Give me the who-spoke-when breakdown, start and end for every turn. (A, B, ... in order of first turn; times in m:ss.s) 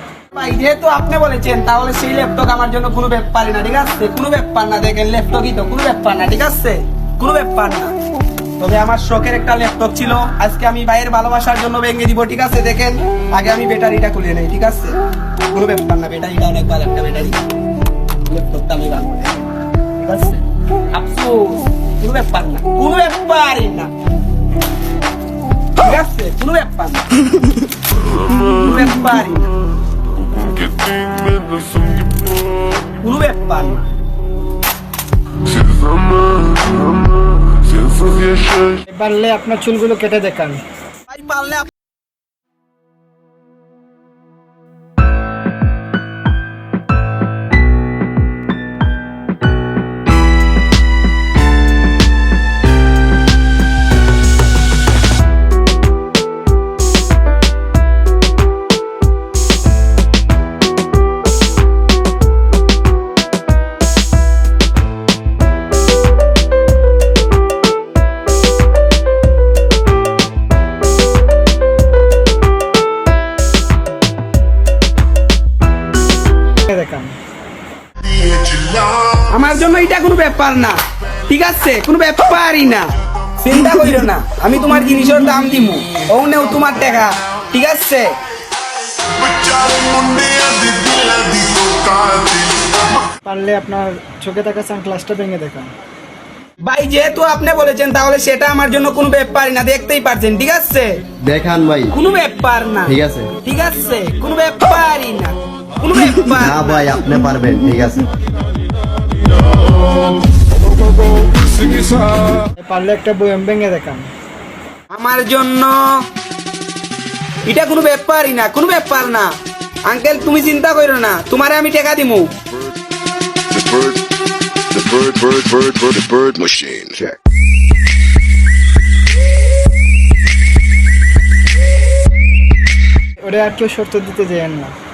0:00.3-0:07.9 A
0:08.6-0:15.0 A
0:15.5-0:17.4 A
0:18.2-0:19.4 A
0:20.0-0:23.9 A
0:25.8-0:27.6 A
0:28.2-0:29.5 A
0:30.6-0:32.1 B
0:33.0-0:33.8 A
0:38.8-0:40.6 C
0:41.1-0:41.7 A
1:16.7-1:17.2 C
1:18.5-1:28.2 A
1:29.2-1:32.6 B
1:33.2-1:35.7 C
1:36.6-1:41.0 A
1:41.2-1:41.9 D
1:41.9-1:47.0 A
1:42.8-1:43.3 D
1:46.4-1:48.1 D
1:52.4-1:54.1 C
1:54.9-1:56.1 A
1:57.4-1:59.3 A
1:59.8-2:02.3 A
2:03.5-2:04.0 B
2:04.7-2:07.2 B
2:13.2-2:14.7 C